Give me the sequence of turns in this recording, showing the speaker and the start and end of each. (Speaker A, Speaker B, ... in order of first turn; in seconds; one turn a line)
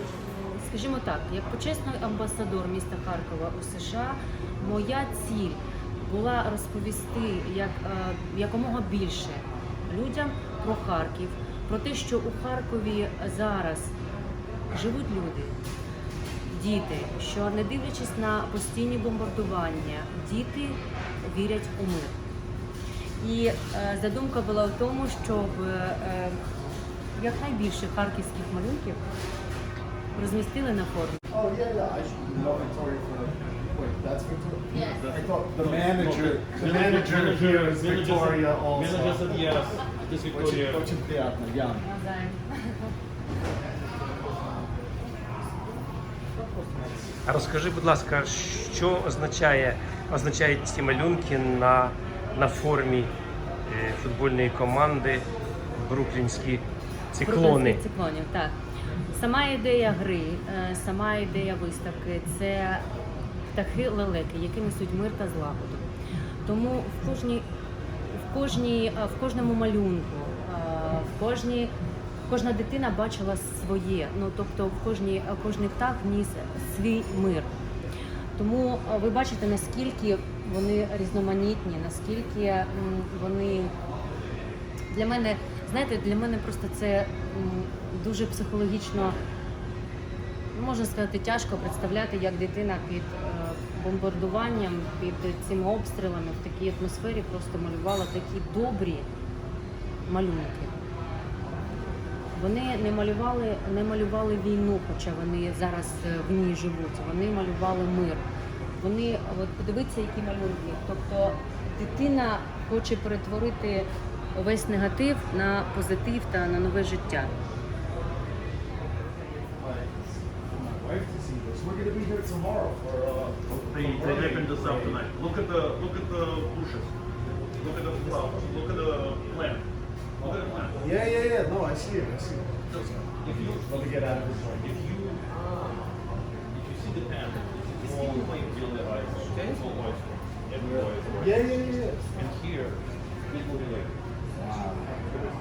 Speaker A: 0.5-13.9
Speaker A: 14.7-15.5
Speaker A: 16.5-22.2
Speaker A: 23.2-26.4
Speaker A: 27.1-29.0
Speaker A: 30.1-31.2
Speaker B: 31.3-39.5
Speaker C: 34.7-40.9
Speaker B: 40.2-41.9
Speaker A: 41.8-42.9
Speaker D: 47.2-53.1
Speaker D: 53.7-56.6
Speaker D: 57.1-57.8
Speaker A: 57.2-58.5
Speaker A: 59.1-62.8
Speaker A: 63.5-65.8
Speaker A: 66.4-67.5
Speaker A: 68.1-71.7
Speaker A: 72.3-77.5
Speaker A: 78.3-83.7
Speaker A: 84.9-89.2
Speaker A: 90.5-99.1
Speaker A: 100.0-100.7
Speaker A: 102.3-108.2
Speaker A: 108.8-117.3
Speaker B: 119.6-125.0
Speaker C: 123.5-126.9
Speaker C: 127.6-130.9
Speaker B: 130.8-134.7
Speaker C: 132.7-135.3
Speaker C: 136.5-141.6
Speaker B: 141.2-142.1
Speaker C: 142.1-143.9
Speaker B: 144.3-145.0